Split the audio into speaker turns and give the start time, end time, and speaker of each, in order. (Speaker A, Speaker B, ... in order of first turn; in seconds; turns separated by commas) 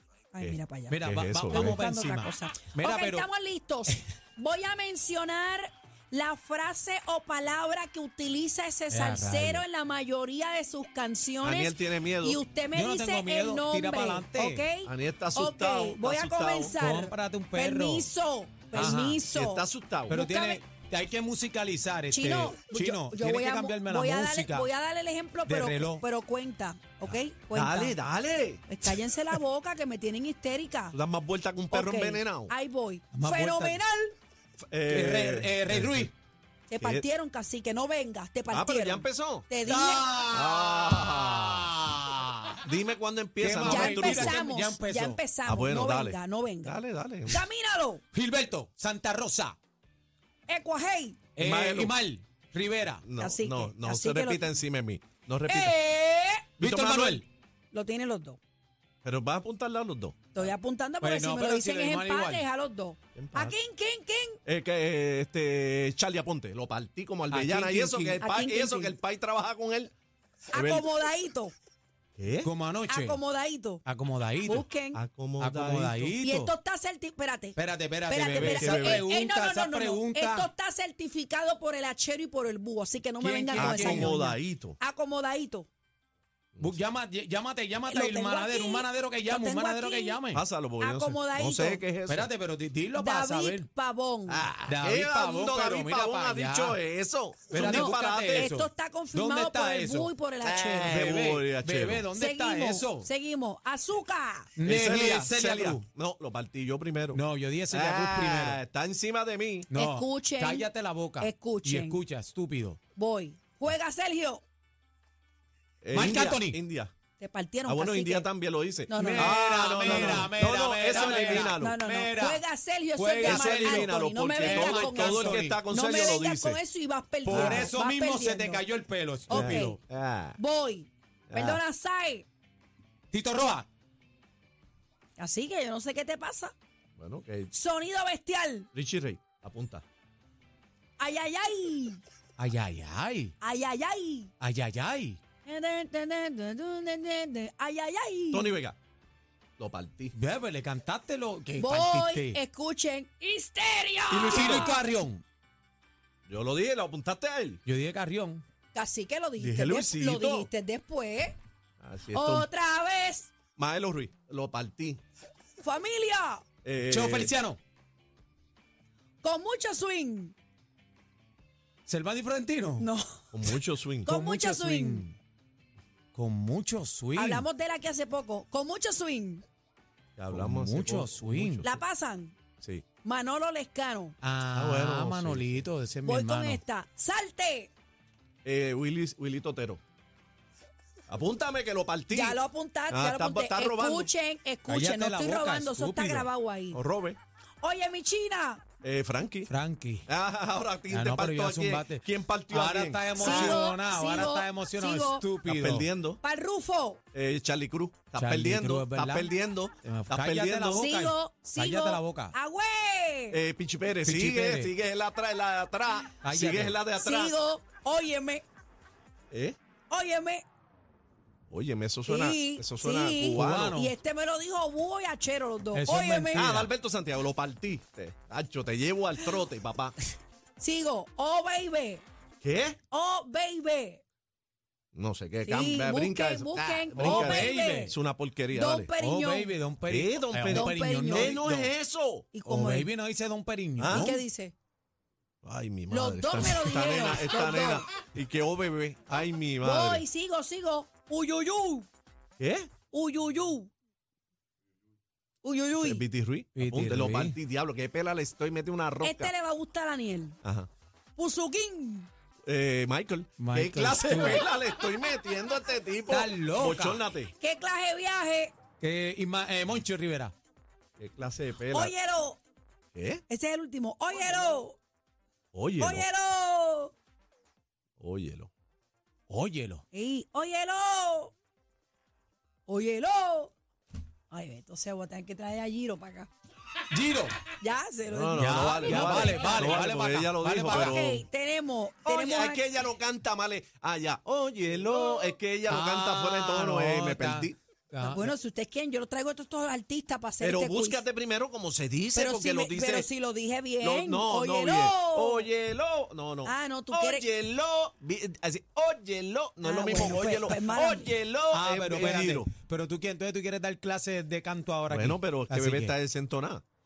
Speaker A: 0.3-20.6, Speaker B: 0.4-1.8, Speaker C: 0.9-3.3, Speaker C: 8.9-9.6, Speaker B: 11.4-12.4, Speaker C: 12.7-14.6, Speaker B: 14.8-16.8, Speaker C: 16.8-18.1, Speaker C: 18.7-19.2, Speaker B: 18.8-20.2, Speaker C: 20.1-24.7, Speaker A: 22.1-28.0, Speaker C: 25.5-26.0, Speaker B: 27.1-29.0, Speaker A: 28.7-31.0, Speaker B: 30.9-32.5, Speaker A: 31.7-34.1, Speaker C: 33.1-33.8, Speaker B: 34.7-36.1, Speaker C: 34.9-36.1, Speaker A: 36.7-40.1, Speaker B: 36.8-37.1, Speaker B: 38.5-39.5, Speaker C: 39.6-42.6, Speaker B: 40.3-41.7, Speaker B: 42.6-44.4, Speaker C: 43.4-45.2, Speaker A: 43.6-46.8, Speaker B: 45.5-47.5, Speaker A: 47.3-48.0, Speaker C: 48.1-49.6, Speaker A: 50.5-51.2, Speaker C: 51.4-53.0, Speaker B: 51.4-52.0, Speaker B: 53.0-55.8, Speaker A: 53.2-54.5, Speaker A: 55.4-56.5, Speaker B: 56.6-57.2, Speaker C: 56.6-57.2, Speaker A: 57.7-58.4, Speaker B: 59.0-60.5, Speaker A: 60.3-64.4, Speaker C: 61.0-62.4, Speaker B: 63.1-63.5, Speaker B: 64.5-69.9, Speaker C: 67.3-68.2, Speaker A: 68.2-69.0, Speaker A: 70.5-71.5, Speaker B: 70.5-70.9, Speaker B: 72.2-72.5, Speaker C: 72.4-73.2, Speaker A: 72.9-73.8, Speaker C: 73.8-74.7, Speaker A: 74.4-75.0, Speaker B: 74.9-76.1, Speaker C: 75.4-76.5, Speaker A: 76.2-85.7, Speaker C: 77.5-80.5, Speaker B: 78.4-79.0, Speaker C: 83.2-84.1, Speaker B: 83.5-84.8, Speaker B: 86.5-86.9, Speaker C: 86.6-90.4, Speaker A: 87.9-90.2, Speaker B: 90.3-92.3, Speaker A: 90.8-91.8, Speaker C: 92.0-93.7, Speaker A: 92.9-94.5, Speaker B: 94.3-98.5, Speaker C: 94.7-96.8, Speaker C: 97.5-100.1, Speaker A: 97.5-101.0, Speaker B: 100.4-102.1, Speaker C: 100.7-103.1, Speaker A: 102.1-104.5, Speaker C: 104.5-105.8, Speaker B: 104.6-109.7, Speaker C: 107.1-108.6, Speaker C: 109.7-112.8, Speaker A: 109.8-110.7, Speaker A: 111.2-112.0, Speaker A: 112.9-114.4, Speaker B: 115.8-116.9, Speaker C: 115.9-116.6, Speaker A: 117.2-118.3, Speaker B: 117.7-121.8, Speaker A: 118.9-120.3, Speaker C: 118.9-122.4, Speaker A: 120.9-128.6, Speaker C: 122.9-125.6, Speaker B: 123.2-126.6, Speaker C: 127.2-129.8, Speaker B: 127.3-127.7, Speaker A: 129.3-129.8, Speaker B: 129.3-130.4, Speaker A: 130.4-132.2, Speaker B: 131.3-131.6, Speaker C: 133.1-133.7, Speaker A: 135.2-136.5, Speaker B: 137.0-137.5, Speaker A: 137.5-138.7, Speaker B: 138.7-139.8, Speaker A: 141.0-142.0, Speaker C: 142.4-143.3, Speaker A: 143.4-144.3, Speaker C: 144.4-145.2, Speaker A: 145.4-148.5, Speaker B: 148.3-148.8, Speaker B: 149.6-150.1, Speaker C: 150.1-152.4, Speaker A: 151.6-154.8, Speaker B: 154.1-154.8, Speaker C: 154.3-155.2, Speaker B: 156.3-157.6, Speaker C: 157.7-158.4, Speaker A: 158.7-161.4, Speaker B: 159.4-160.5, Speaker B: 161.8-162.5, Speaker A: 162.1-163.3, Speaker B: 163.6-165.0, Speaker A: 165.6-166.4, Speaker B: 166.6-167.3, Speaker C: 166.9-167.6, Speaker A: 169.2-170.3, Speaker C: 171.9-172.9, Speaker A: 172.8-175.0, Speaker B: 173.3-174.1, Speaker C: 174.1-175.2, Speaker C: 176.1-177.5, Speaker A: 177.2-179.4, Speaker B: 180.2-181.8, Speaker C: 180.3-181.7, Speaker A: 181.6-182.3, Speaker A: 183.0-184.1, Speaker C: 184.2-186.6, Speaker B: 184.5-185.7, Speaker A: 186.0-187.7, Speaker B: 188.4-189.8, Speaker B: 191.1-194.1, Speaker A: 192.1-196.8, Speaker C: 194.7-196.3, Speaker B: 196.7-197.2, Speaker A: 197.6-198.6, Speaker B: 198.8-199.5, Speaker C: 199.5-200.1, Speaker B: 200.0-203.7, Speaker C: 200.9-205.9, Speaker A: 203.1-205.3, Speaker B: 205.4-206.2, Speaker A: 206.2-207.0, Speaker B: 207.1-210.8, Speaker C: 208.1-212.3, Speaker A: 210.7-213.4, Speaker B: 213.3-217.4, Speaker C: 214.0-214.7, Speaker C: 216.2-216.8, Speaker A: 217.0-218.4, Speaker B: 219.3-219.6, Speaker A: 219.9-220.4, Speaker B: 221.5-223.8, Speaker A: 222.1-226.6, Speaker C: 223.3-224.0, Speaker C: 225.7-226.7, Speaker B: 226.3-229.9, Speaker A: 230.6-232.0, Speaker B: 232.4-232.8, Speaker A: 232.9-234.0, Speaker B: 234.9-238.9, Speaker A: 235.4-237.9, Speaker C: 237.0-237.9, Speaker A: 238.5-239.5, Speaker C: 239.0-241.7, Speaker B: 239.9-242.3, Speaker A: 240.5-241.4, Speaker A: 242.3-242.9, Speaker C: 242.4-244.2, Speaker B: 243.8-244.1, Speaker A: 243.9-244.5, Speaker B: 245.4-250.0, Speaker A: 245.9-247.9, Speaker A: 249.6-251.9, Speaker B: 252.4-252.7, Speaker A: 252.9-253.7, Speaker A: 255.4-256.0, Speaker B: 255.8-259.3, Speaker C: 256.6-257.4, Speaker A: 259.0-260.4, Speaker B: 260.4-260.7, Speaker A: 261.1-262.1, Speaker B: 262.5-267.3, Speaker C: 263.4-264.5, Speaker C: 266.1-267.0, Speaker A: 267.4-268.5, Speaker C: 268.8-270.3, Speaker B: 271.0-271.9, Speaker A: 271.7-272.4, Speaker B: 272.9-273.2, Speaker A: 273.3-274.8, Speaker B: 275.5-276.1, Speaker A: 275.8-276.9, Speaker B: 278.0-278.5, Speaker C: 279.3-279.8, Speaker A: 279.9-281.3, Speaker A: 282.7-283.5, Speaker A: 284.3-286.3, Speaker C: 286.9-287.4, Speaker A: 287.6-289.7, Speaker B: 288.1-291.2, Speaker C: 288.4-291.2, Speaker A: 290.6-292.7, Speaker B: 292.0-297.6, Speaker A: 295.0-295.3, Speaker C: 295.7-298.3, Speaker A: 298.0-301.0, Speaker B: 300.4-303.1, Speaker A: 302.1-305.5, Speaker B: 303.8-312.5, Speaker A: 306.4-307.3, Speaker A: 309.6-311.1, Speaker C: 309.9-310.6, Speaker C: 311.5-315.9, Speaker B: 314.9-316.6